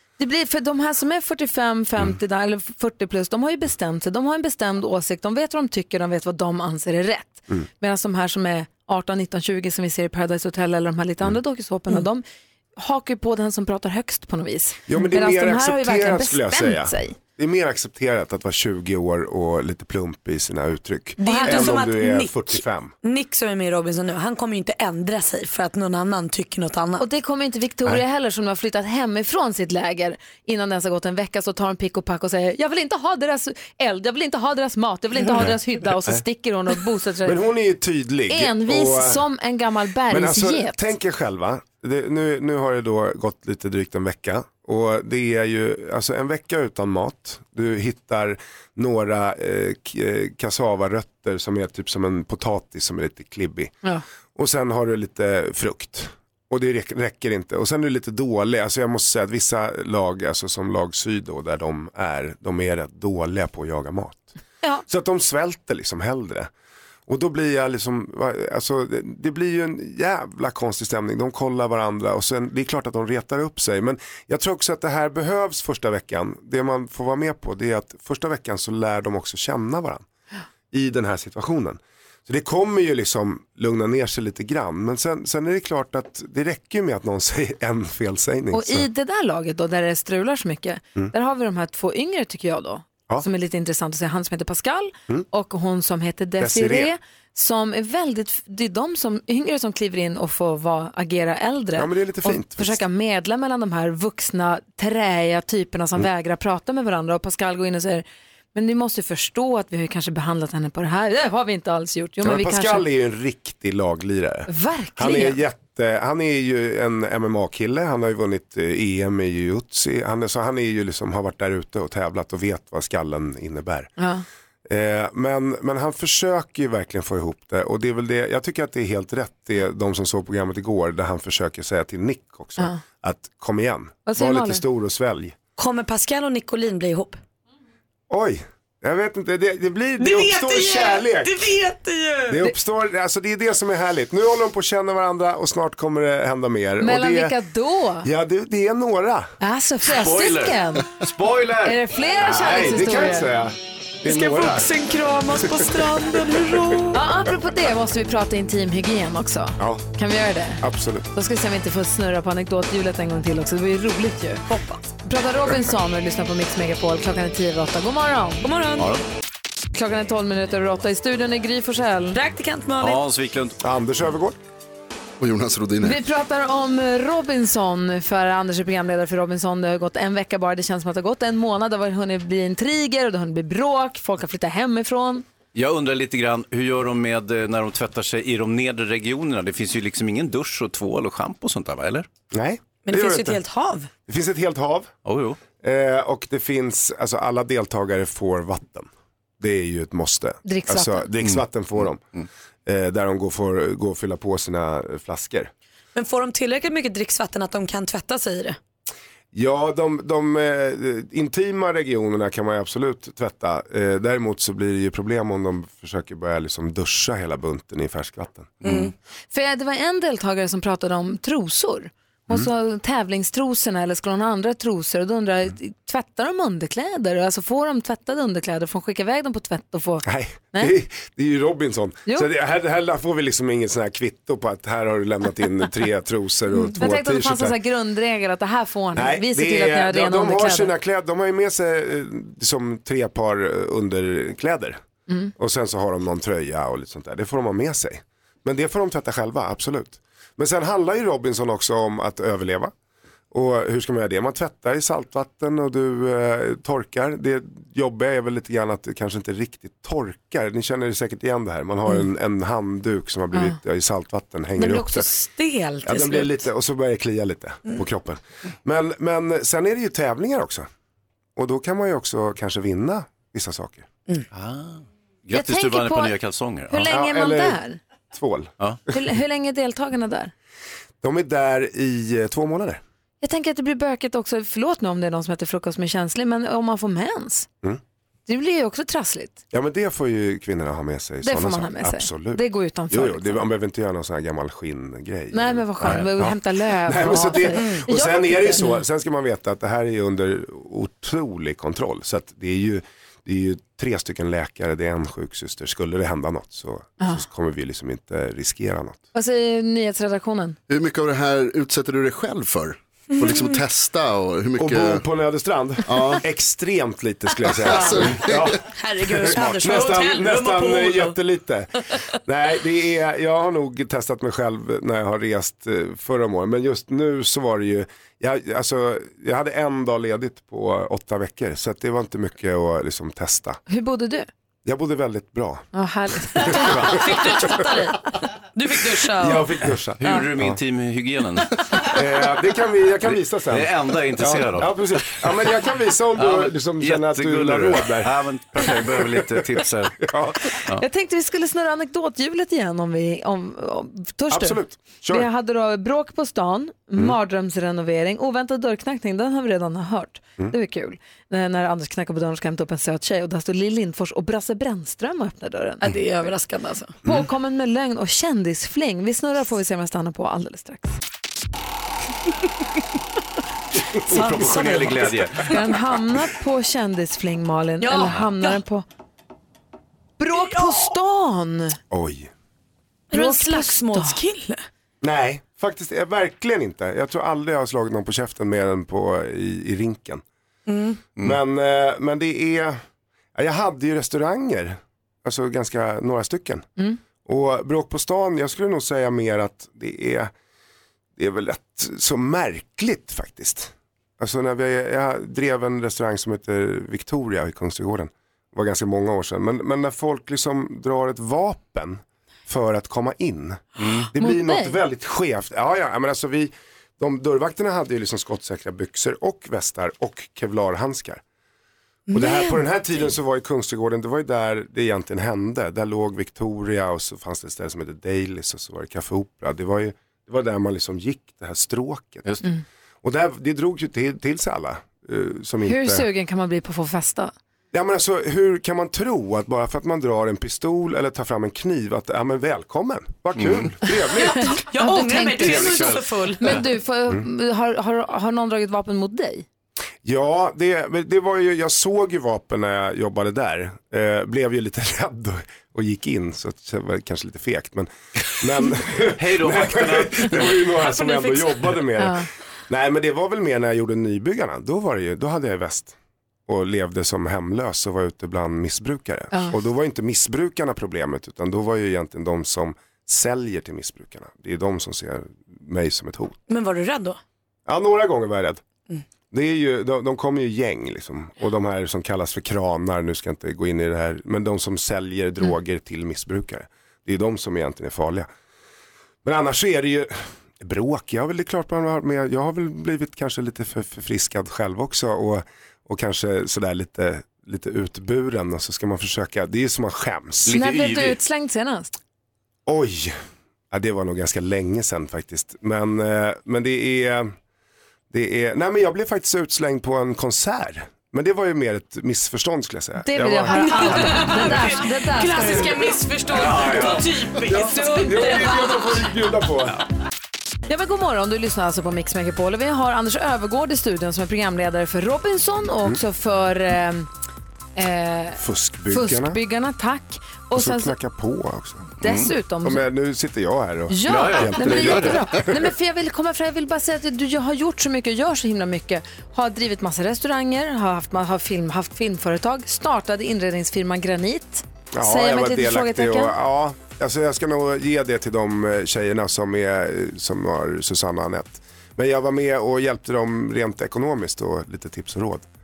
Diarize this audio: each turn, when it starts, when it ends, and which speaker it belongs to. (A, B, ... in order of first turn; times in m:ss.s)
0:00.2-0:12.2 A
0:12.8-0:17.2 A
0:14.9-0:22.9 B
0:21.2-0:27.0 C
0:21.2-0:21.8 A
0:27.0-0:37.4 A
0:37.2-0:39.2 B
0:38.3-0:40.9 A
0:40.1-0:53.7 B
0:54.3-1:04.3 B
1:04.9-1:06.5 B
1:07.1-1:20.0 B
1:20.7-1:28.9 B
1:28.5-1:52.8 A
1:36.4-1:36.9 B
1:41.8-1:42.8 B
1:52.2-2:03.9 B
1:54.5-1:55.4 A
2:04.0-2:04.2 A
2:04.7-2:15.4 B
2:14.0-2:14.6 A
2:15.6-2:17.2 C
2:18.1-2:21.5 B
2:20.0-2:22.5 C
2:22.3-2:27.4 B
2:26.8-2:28.1 A
2:28.0-2:29.3 B
2:29.4-2:30.9 A
2:29.8-2:31.8 D
2:31.6-2:33.3 A
2:32.2-2:34.7 B
2:34.0-2:37.1 C
2:35.3-2:36.6 B
2:36.9-2:44.4 A
2:40.6-2:41.1 B
2:44.5-2:44.9 C
2:45.0-2:48.5 A
2:48.4-2:48.9 C
2:48.8-2:49.0 D
2:49.7-2:52.2 A
2:52.1-2:53.0 C
2:52.8-2:53.6 D
2:53.6-2:54.4 B
2:55.2-2:56.0 E
2:55.8-3:05.2 A
3:05.5-3:12.1 D
3:12.3-3:13.4 B
3:12.8-3:13.9 C
3:14.0-3:14.9 B
3:15.0-3:15.4 D
3:15.6-3:18.9 B
3:19.4-3:22.0 B
3:20.4-3:21.1 A
3:22.6-3:25.5 B
3:25.9-3:28.6 C
3:29.3-3:38.5 B
3:38.6-3:38.9 D
3:38.6-3:38.9 C
3:39.3-3:50.7 A
3:50.0-3:57.6 B
3:56.5-4:00.7 A
3:58.9-4:04.8 B
4:05.4-4:12.7 B
4:13.3-4:25.1 B
4:24.5-4:26.5 C
4:25.8-4:30.7 B
4:31.4-4:33.9 B
4:34.3-4:36.9 D
4:35.3-4:36.1 A
4:36.7-4:37.8 A
4:36.9-4:37.6 B
4:38.1-4:38.5 B
4:38.9-4:40.3 A
4:41.0-4:42.8 B
4:43.2-4:47.5 A
4:48.3-4:49.4 A
4:49.5-5:09.0 B
4:51.2-4:53.5 A
4:55.3-4:58.8 A
4:55.8-4:56.1 D
4:57.5-4:57.9 C
5:09.1-5:10.6 A
5:10.7-5:15.0 E
5:13.2-5:13.6 C
5:14.6-5:21.7 B
5:15.8-5:16.2 E
5:17.4-5:18.6 E
5:17.7-5:21.2 C
5:22.2-5:33.6 B
5:33.7-5:34.3 A
5:34.6-5:35.6 B
5:35.7-5:36.8 A
5:36.4-5:39.6 C
5:36.6-5:37.1 D
5:39.1-5:40.6 B
5:40.0-5:41.8 D
5:41.9-5:49.4 B
5:43.0-5:45.3 D
5:46.1-5:50.8 D
5:50.0-5:50.4 B
5:50.8-6:05.9 A
5:54.3-5:55.3 B
6:05.8-6:06.9 C
6:07.0-6:11.0 A
6:14.1-6:15.6 D
6:14.1-6:15.0 C
6:14.1-6:14.7 A
6:15.5-6:18.8 A
6:17.8-6:18.6 C
6:20.2-6:21.8 A
6:20.3-6:20.9 C
6:21.9-6:22.3 B
6:23.1-6:24.6 C
6:23.1-6:24.2 A
6:25.0-6:30.2 B
6:30.7-6:31.0 C
6:31.2-6:32.8 B
6:33.3-6:36.7 B
6:37.2-6:40.3 B
6:41.2-6:53.6 B
6:53.8-6:54.1 D
6:54.1-7:01.2 B
6:54.2-6:54.8 A
7:02.1-7:03.1 C
7:02.1-7:12.3 B
7:13.0-7:16.1 B
7:15.6-7:17.3 A
7:17.7-7:24.6 B
7:23.4-7:23.7 D
7:24.2-7:26.6 C
7:24.2-7:29.4 A
7:25.4-7:26.6 D
7:30.0-7:46.0 B
7:39.2-7:40.8 D
7:40.9-7:41.7 C
7:42.0-7:42.2 A
7:46.5-7:56.4 B
7:56.5-7:57.2 C
7:57.6-7:58.6 B
7:59.3-8:08.3 B
8:09.2-8:20.6 B
8:20.4-8:21.2 D
8:20.5-8:21.9 A
8:22.6-8:23.2 B
8:23.7-8:27.3 B
8:28.1-8:34.5 B
8:33.0-8:35.8 A
8:33.5-8:39.1 C
8:36.3-8:37.1 D
8:37.4-8:39.8 B
8:37.6-8:38.3 A
8:40.7-8:47.1 A
8:47.8-8:50.9 A
8:48.4-8:49.4 B
8:50.5-8:52.0 B
8:52.0-8:52.3 D
8:52.0-8:52.8 A
8:52.6-8:55.6 B
8:53.9-9:06.3 A
8:54.0-8:55.3 D
9:04.9-9:15.4 B